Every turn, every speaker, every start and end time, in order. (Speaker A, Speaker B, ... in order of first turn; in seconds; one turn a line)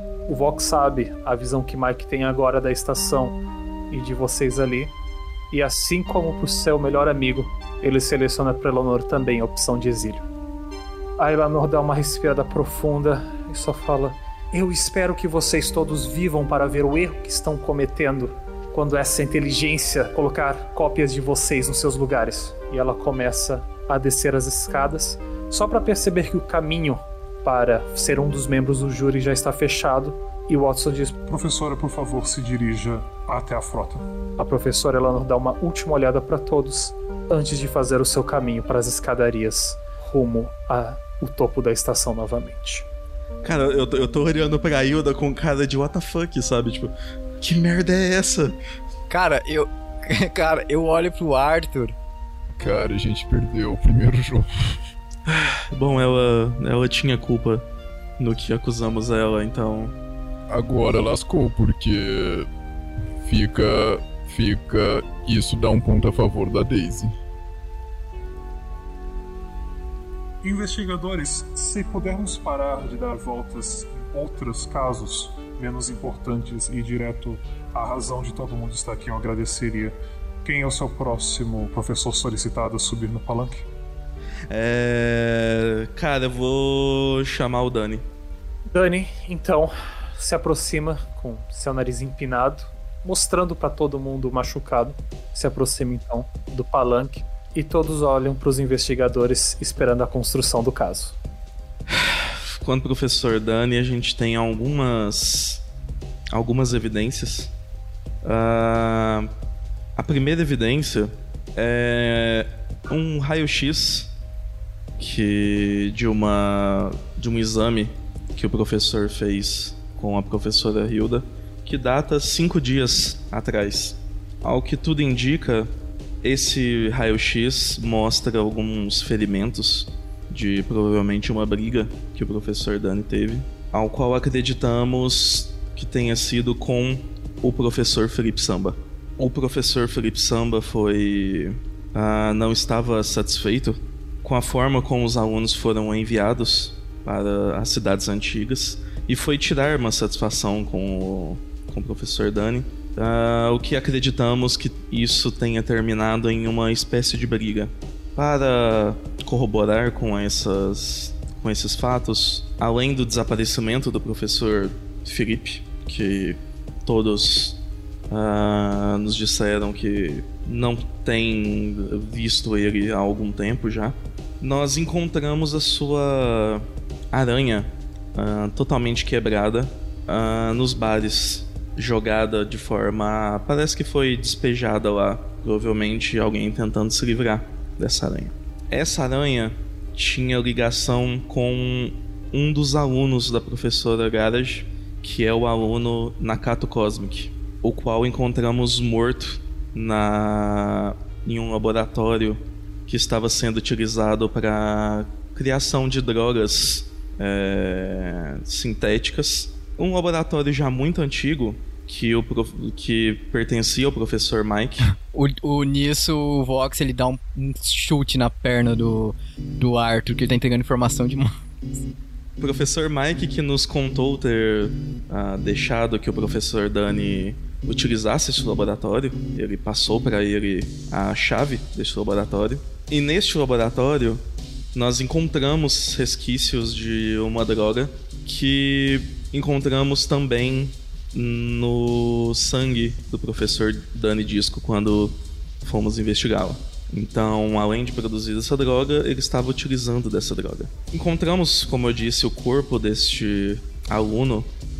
Speaker A: 0.3-4.9
Speaker A: 5.5-10.2
Speaker A: 11.2-31.1
Speaker B: 31.3-34.0
Speaker A: 34.4-42.9
Speaker C: 43.4-48.5
Speaker D: 49.1-51.9
Speaker E: 52.6-54.8
Speaker C: 55.2-57.6
Speaker C: 58.2-59.9
Speaker E: 60.5-62.5
Speaker E: 63.2-67.1
Speaker B: 70.4-83.7
Speaker C: 84.5-88.0
Speaker A: 88.7-101.2
Speaker C: 101.9-105.6
Speaker C: 106.3-107.5
Speaker C: 108.2-109.3
Speaker C: 110.0-114.1
Speaker C: 115.0-125.7
Speaker C: 126.2-214.9
Speaker D: 214.9-221.4
Speaker C: 222.4-234.2
Speaker C: 234.7-254.5